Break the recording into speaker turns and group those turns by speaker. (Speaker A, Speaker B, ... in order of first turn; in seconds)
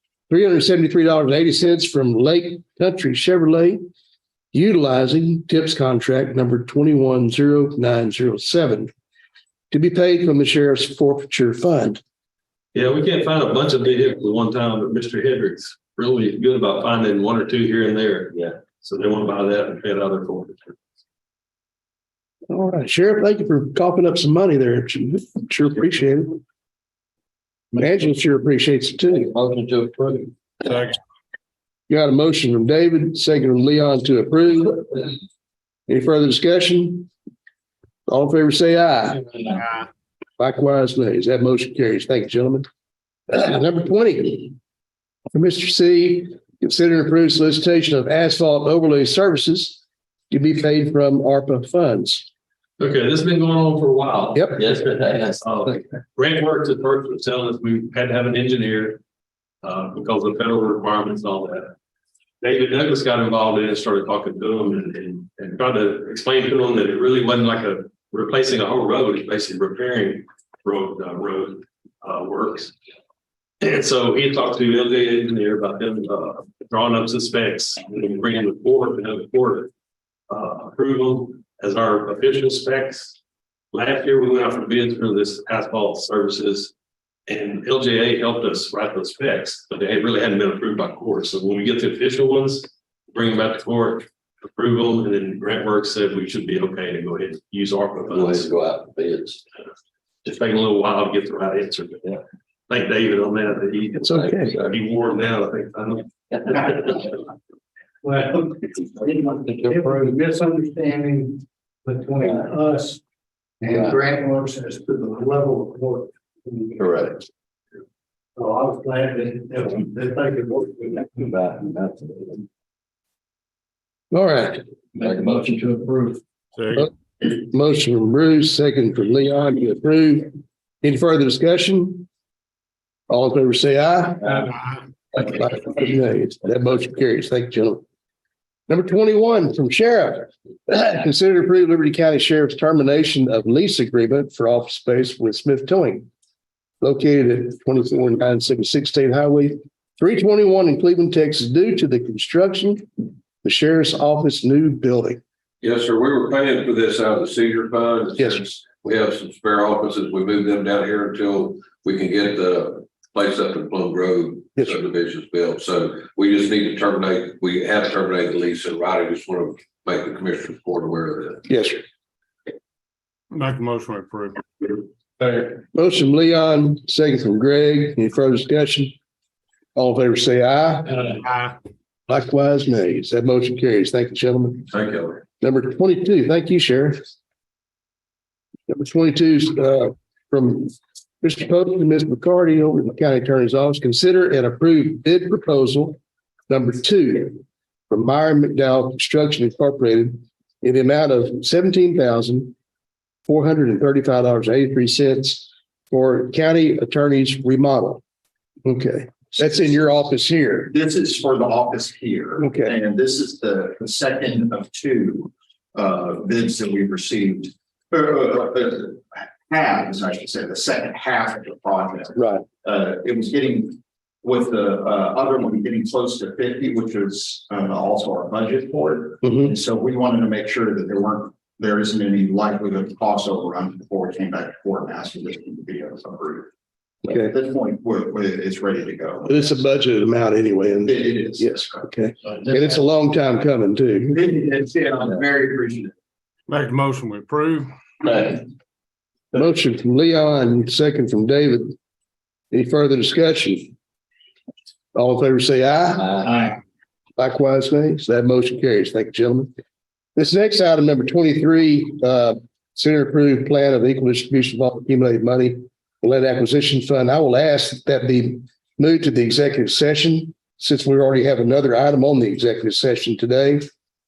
Speaker A: 0.3-3.8, 4.5-8.9, 9.7-12.0, 22.5-26.4, 27.8-29.3, 31.9-35.1, 35.9-37.1, 38.1-39.6, 40.4-42.7, 43.3-44.5, 45.3-52.3, 54.4-54.6, 104.0-104.5, 124.1-124.6, 126.8-130.3, 130.8-132.1, 133.1-134.5, 135.1-137.8, 138.7-146.1, 146.8-152.9, 153.4-155.2, 158.2-158.5, 171.5-171.8, 175.4-178.9, 179.8-181.1, 182.1-184.7, 185.4-187.0, 188.7-202.6, 203.3-208.0, 208.7-210.7, 212.4-212.7, 222.2-222.4, 229.2-229.5, 239.3-244.2, 249.3-251.8, 252.5-253.7, 254.9-256.4, 257.2-259.5, 260.2-273.7
Speaker B: 12.7-20.8, 52.8-59.0, 59.6-61.8, 62.4-72.7, 73.6-79.7, 80.3-83.2, 83.7-86.7, 87.3-98.5, 100.2-107.1
Speaker C: 29.1-30.3, 54.6-55.4, 98.4-99.4, 109.4-110.1, 116.8-117.2, 121.2-122.5, 125.0-125.9
Speaker D: 30.7-30.9, 126.6-126.9, 173.3-175.3, 181.2-181.6, 246.5-247.8
Speaker E: 108.0-113.0, 113.6-117.0, 118.4-121.2, 125.0-126.2
Speaker F: 155.6-171.4, 184.7-185.2
Speaker G: 210.7-236.5, 237.1-239.3, 240.8-241.7, 244.1-245.9